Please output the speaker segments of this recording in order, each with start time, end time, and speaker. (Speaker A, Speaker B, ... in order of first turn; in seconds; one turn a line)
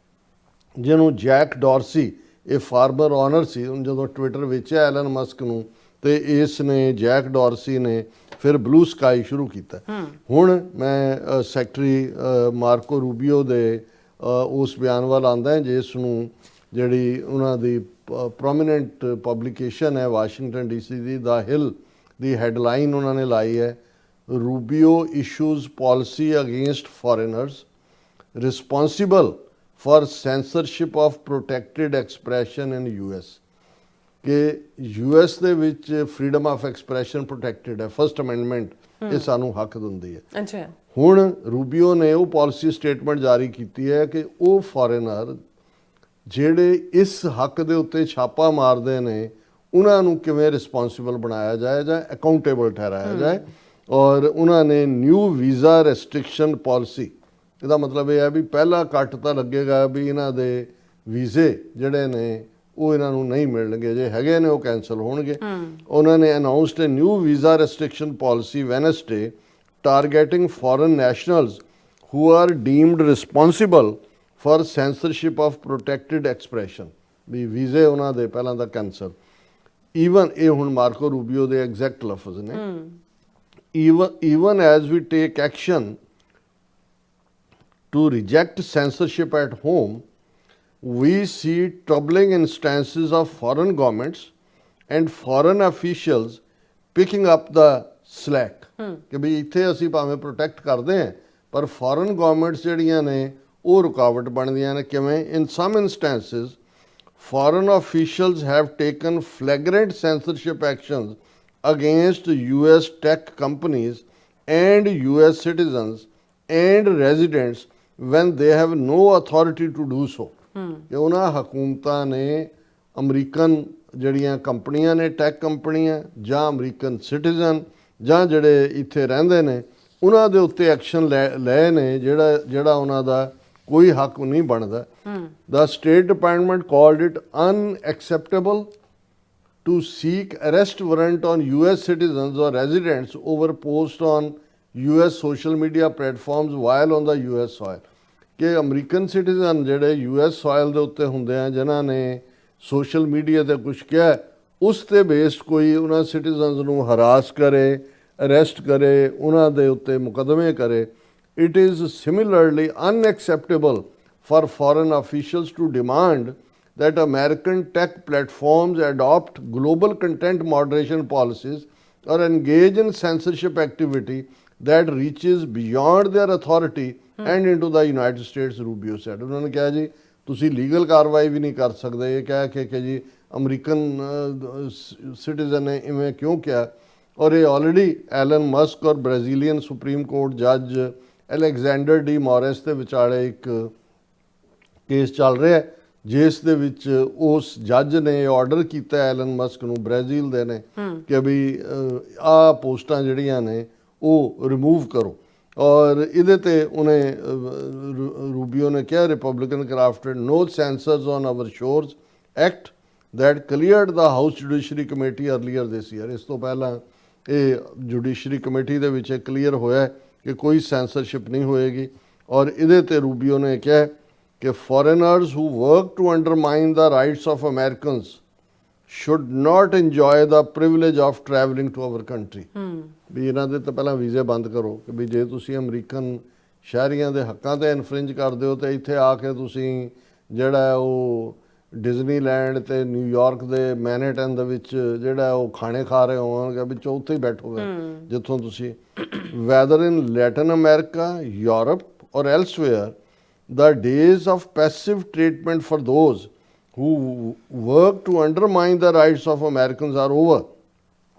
Speaker A: 0.8-23.8
Speaker A: 24.3-27.6
Speaker A: 28.4-33.4
Speaker A: 34.2-40.2
Speaker B: 39.0-39.3
Speaker B: 40.3-40.7
Speaker A: 40.9-45.4
Speaker A: 46.3-79.1
Speaker B: 53.0-53.5
Speaker B: 65.5-65.7
Speaker A: 79.9-82.6
Speaker B: 82.5-83.0
Speaker A: 83.7-86.0
Speaker A: 87.9-90.0
Speaker A: 90.8-94.3
Speaker A: 94.9-96.4
Speaker A: 96.9-106.6
Speaker A: 107.2-120.3
Speaker B: 120.6-120.8
Speaker A: 120.9-134.9
Speaker A: 135.5-138.7
Speaker A: 139.6-147.8
Speaker A: 148.4-193.7
Speaker A: 194.9-228.2
Speaker B: 200.8-201.0
Speaker A: 228.9-232.5
Speaker B: 232.6-232.9
Speaker A: 233.1-252.9
Speaker B: 247.6-248.0
Speaker A: 253.5-260.4